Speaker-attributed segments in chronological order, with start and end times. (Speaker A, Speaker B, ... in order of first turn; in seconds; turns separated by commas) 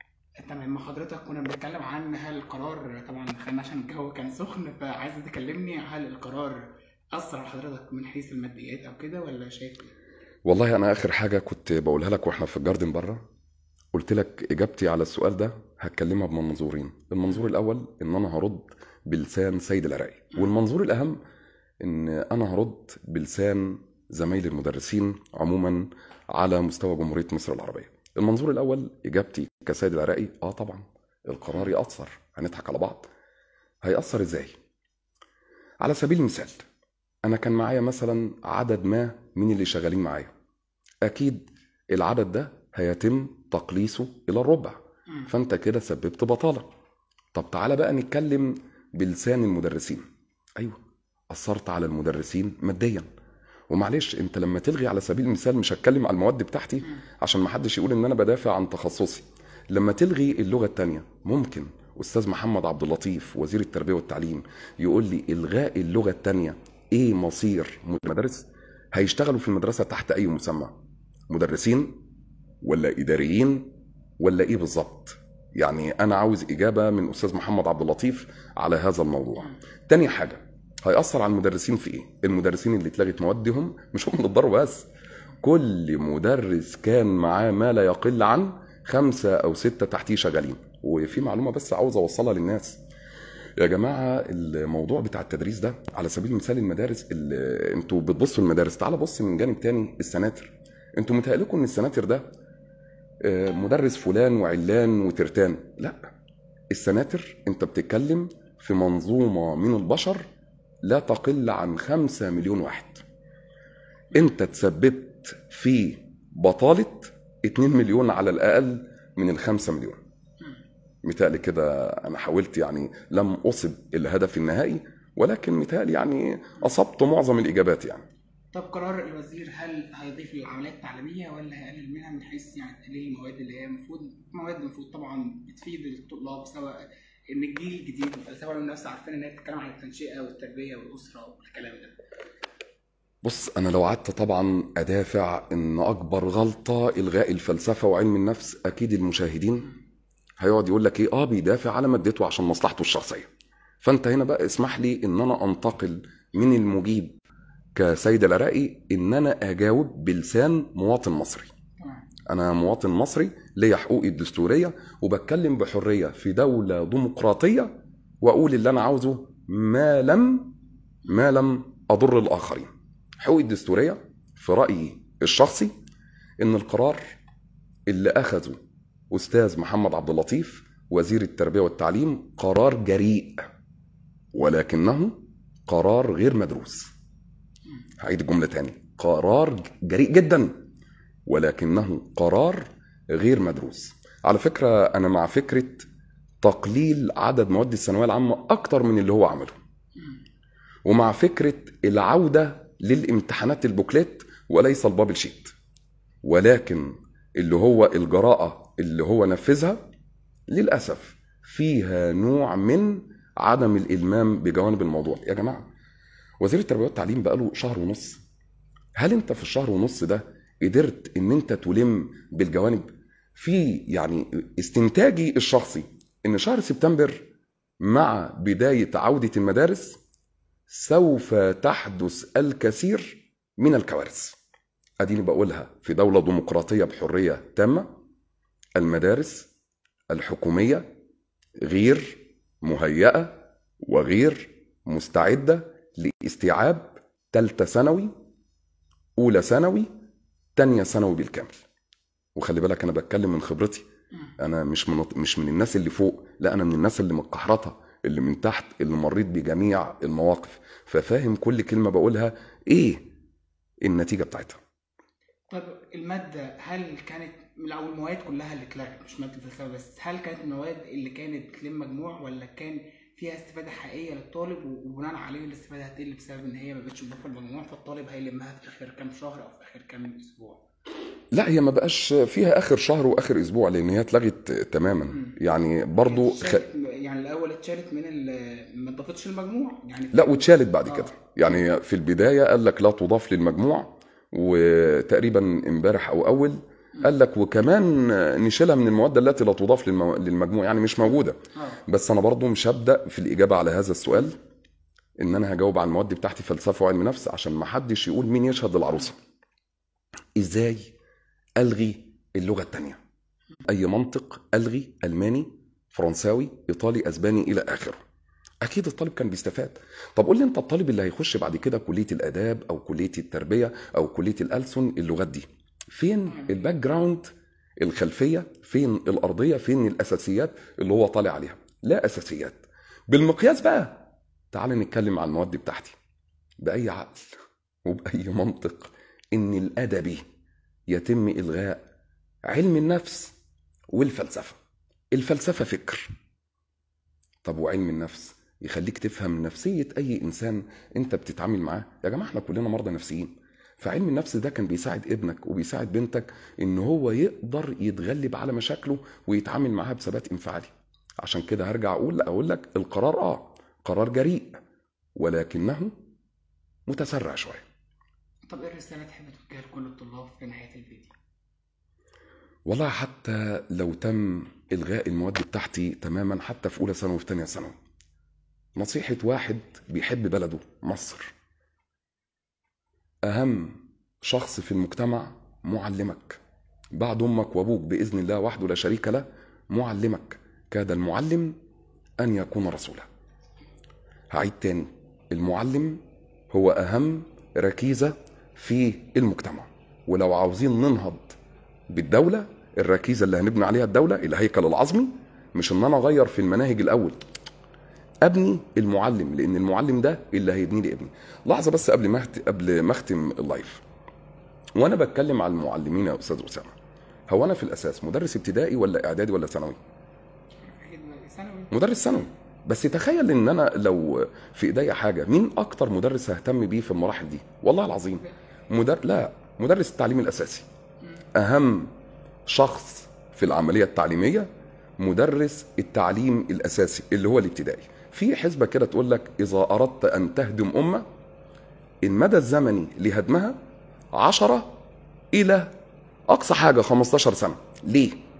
Speaker A: 0.4-6.6, Speaker A: 7.1-9.9, Speaker B: 10.4-13.2, Speaker B: 13.9-21.2, Speaker B: 21.8-33.1, Speaker B: 33.8-34.5, Speaker B: 35.8-36.6, Speaker B: 37.2-40.3, Speaker B: 41.0-46.7, Speaker B: 47.3-50.0, Speaker B: 51.3-53.0, Speaker B: 53.7-70.7, Speaker B: 71.3-71.9, Speaker B: 72.6-73.7, Speaker B: 74.2-84.9, Speaker B: 85.4-92.8, Speaker B: 93.6-102.2, Speaker B: 103.2-106.0, Speaker B: 106.7-110.2, Speaker B: 110.8-113.0, Speaker B: 114.1-120.0, Speaker B: 121.0-128.1, Speaker A: 128.5-141.9, Speaker B: 143.2-149.7, Speaker B: 150.4-153.3, Speaker B: 153.8-157.2, Speaker B: 157.7-161.5, Speaker A: 161.8-162.1, Speaker B: 162.3-170.5, Speaker B: 171.1-172.7, Speaker B: 173.2-175.7, Speaker B: 176.4-177.0, Speaker B: 177.9-178.6, Speaker B: 179.1-183.5, Speaker B: 184.3-185.2, Speaker B: 185.7-186.9, Speaker B: 188.0-190.5, Speaker B: 191.2-195.9, Speaker B: 196.4-199.6, Speaker B: 200.8-205.5, Speaker B: 206.2-209.8, Speaker B: 210.5-215.7, Speaker B: 216.4-218.2, Speaker B: 219.0-227.2, Speaker B: 227.8-230.0, Speaker B: 230.7-234.4, Speaker B: 235.0-237.9, Speaker B: 238.8-239.5, Speaker B: 240.1-240.8, Speaker B: 241.6-248.1, Speaker B: 249.2-249.9, Speaker B: 250.6-251.6, Speaker B: 252.3-253.8, Speaker B: 254.4-263.0, Speaker B: 263.8-264.6, Speaker A: 265.5-280.6, Speaker B: 281.3-286.6, Speaker A: 285.1-285.4, Speaker A: 286.0-291.5, Speaker B: 290.1-304.4, Speaker A: 301.6-301.8, Speaker B: 305.2-309.2, Speaker B: 310.4-310.9, Speaker B: 311.6-313.0, Speaker B: 313.7-318.0, Speaker B: 318.6-327.3, Speaker A: 326.3-326.6, Speaker B: 327.8-335.9, Speaker B: 336.6-340.2, Speaker B: 340.9-341.8, Speaker B: 342.4-343.3, Speaker B: 343.9-344.6, Speaker B: 345.1-346.1, Speaker B: 347.4-364.6, Speaker B: 365.1-365.9, Speaker B: 366.9-367.6, Speaker A: 368.5-371.1, Speaker B: 372.6-377.7, Speaker B: 378.8-381.3, Speaker B: 383.2-386.4, Speaker B: 386.9-391.5, Speaker B: 392.2-393.1, Speaker B: 394.3-396.0, Speaker B: 396.5-401.4, Speaker B: 401.9-407.2, Speaker B: 408.2-413.8, Speaker B: 414.8-416.7, Speaker B: 417.3-419.8, Speaker A: 420.6-422.2, Speaker B: 421.7-430.6, Speaker B: 431.3-431.9, Speaker B: 432.4-441.0, Speaker B: 442.0-443.6, Speaker B: 444.1-444.8, Speaker B: 445.3-445.7, Speaker B: 446.3-448.1